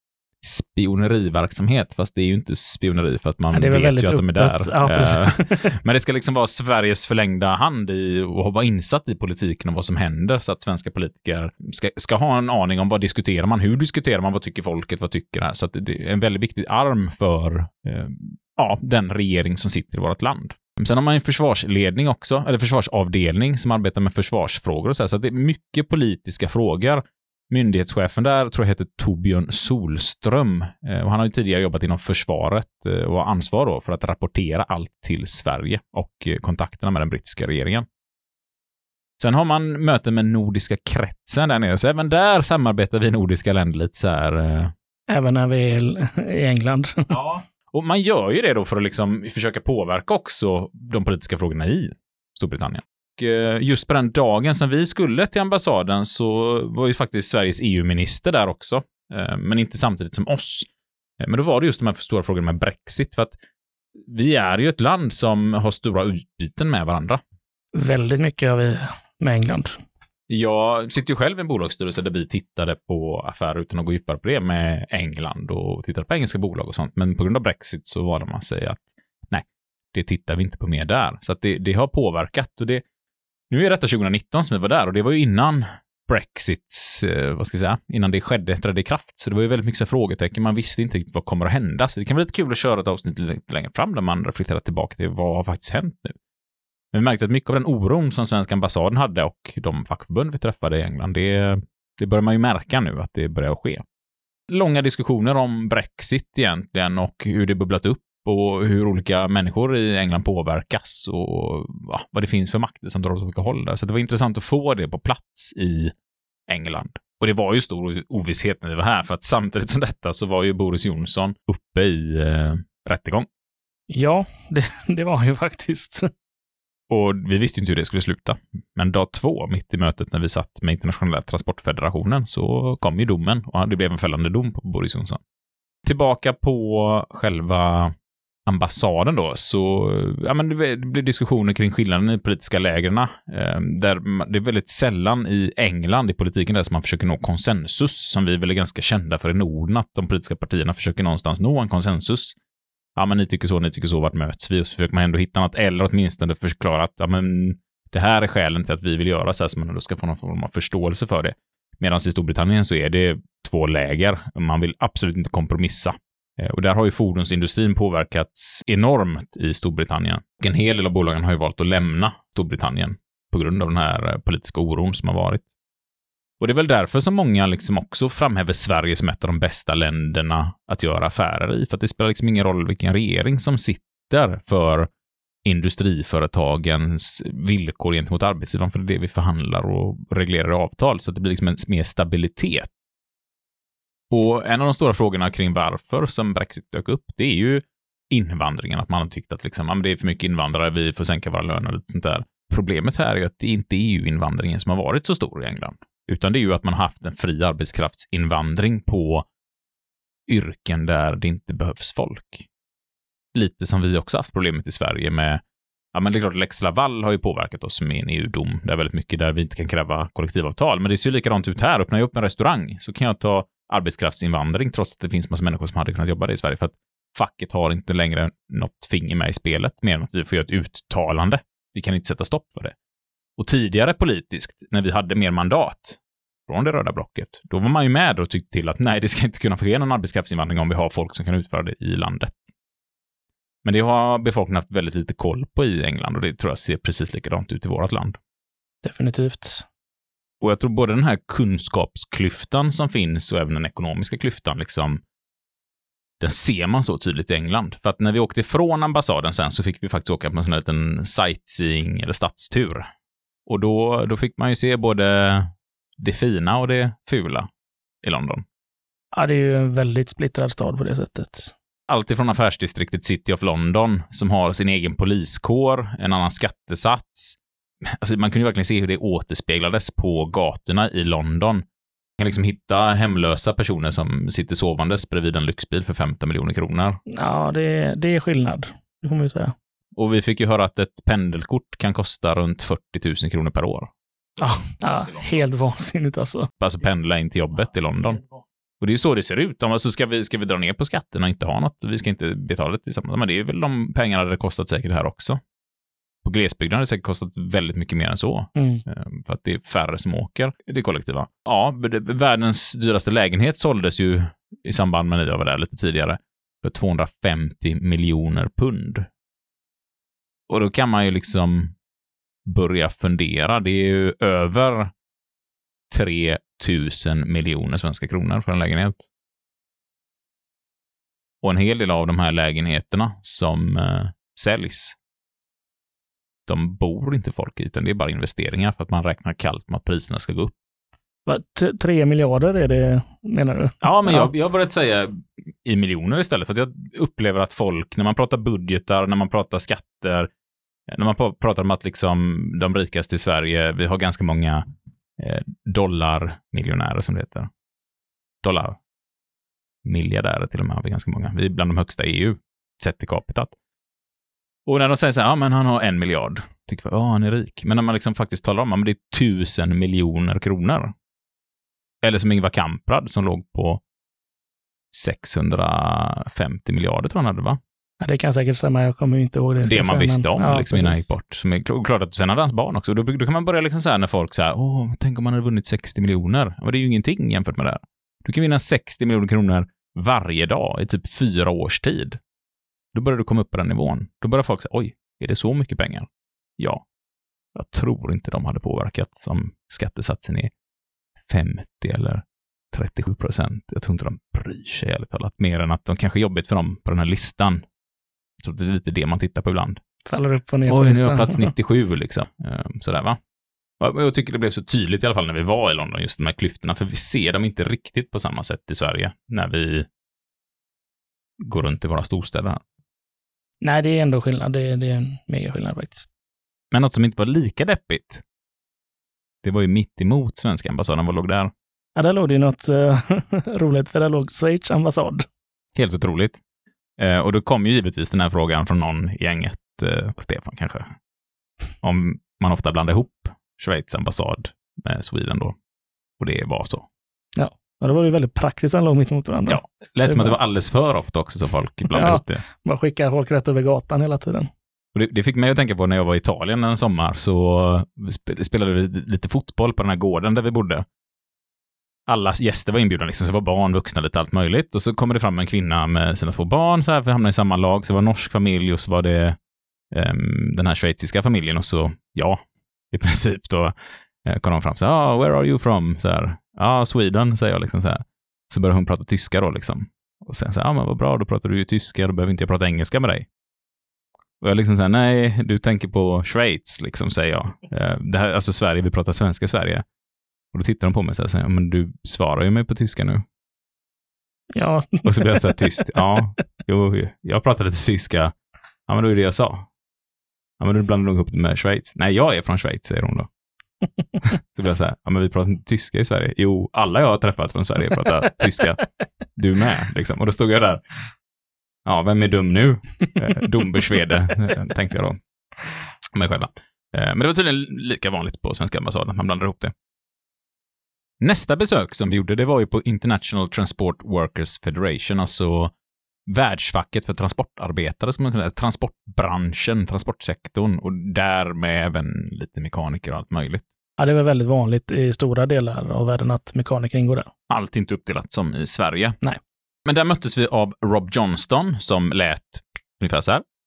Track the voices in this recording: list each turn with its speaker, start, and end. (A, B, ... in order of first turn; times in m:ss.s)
0:00.4-0:37.8 A
0:03.5-0:05.6 B
0:39.2-0:44.7 A
0:45.1-0:47.1 B
0:47.1-1:00.7 A
1:01.2-1:03.4 A
1:04.0-1:07.2 A
1:07.8-1:09.8 B
1:10.3-1:22.8 A
1:23.5-1:36.2 A
1:36.9-1:43.8 A
1:44.5-1:55.9 A
1:56.5-2:03.3 A
2:03.9-2:06.1 B
2:06.9-2:15.2 A
2:15.8-2:17.9 A
2:18.4-2:32.4 A
2:33.0-2:55.5 A
2:56.4-3:04.9 A
3:05.4-3:12.7 A
3:14.1-3:29.2 A
3:30.3-3:32.5 A
3:33.3-3:35.4 A
3:35.9-3:52.7 A
3:53.4-4:02.5 A
4:03.6-4:08.2 A
4:08.8-4:09.6 B
4:10.4-4:15.0 A
4:16.2-4:22.9 A
4:23.5-4:27.5 A
4:28.0-4:28.4 A
4:29.1-4:31.5 B
4:31.9-4:41.6 A
4:42.2-4:47.0 A
4:47.1-4:49.5 B
4:50.0-4:53.9 A
4:54.4-4:56.5 B
4:56.6-4:58.2 A
4:58.8-5:05.4 A
5:06.2-5:19.1 A
5:08.6-5:08.8 B
5:20.5-5:21.7 A
5:22.4-5:24.9 A
5:25.9-5:29.0 A
5:31.4-5:35.0 A
5:36.5-5:40.5 A
5:41.2-5:44.3 B
5:43.8-5:50.3 A
5:50.9-5:54.6 A
5:55.2-5:57.5 A
5:58.4-5:58.8 A
5:59.8-6:03.5 A
6:04.6-6:10.9 A
6:12.0-6:13.8 A
6:14.9-6:17.6 A
6:18.0-6:21.0 B
6:19.6-6:32.2 A
6:32.9-6:36.1 A
6:36.6-6:36.8 A
6:37.5-6:40.5 A
6:41.3-6:47.6 A
6:48.4-6:49.8 A
6:50.1-6:51.5 B
6:50.7-6:53.2 A
6:53.8-6:59.9 A
7:01.4-7:02.6 A
7:03.6-7:06.1 B
7:06.7-7:08.2 A
7:09.4-7:11.5 A
7:12.0-7:15.2 B
7:15.8-7:16.4 A
7:17.0-7:20.9 A
7:21.8-7:25.5 A
7:26.2-7:26.9 A
7:27.4-7:30.4 B
7:29.5-7:32.4 A
7:31.9-7:34.5 B
7:34.9-7:40.8 A
7:42.1-7:49.4 A
7:49.9-7:52.4 A
7:52.9-8:03.2 A
8:04.4-8:09.8 A
8:10.5-8:13.2 A
8:14.5-8:15.9 B
8:15.0-8:18.3 A
8:18.9-8:19.7 A
8:20.6-8:23.3 A
8:24.5-8:28.8 A
8:29.3-8:30.8 A
8:31.8-8:35.2 A
8:36.1-8:39.7 A
8:41.2-8:45.7 A
8:46.3-8:53.6 A
8:54.0-8:57.3 B
8:57.5-8:59.2 A
8:59.8-9:03.4 A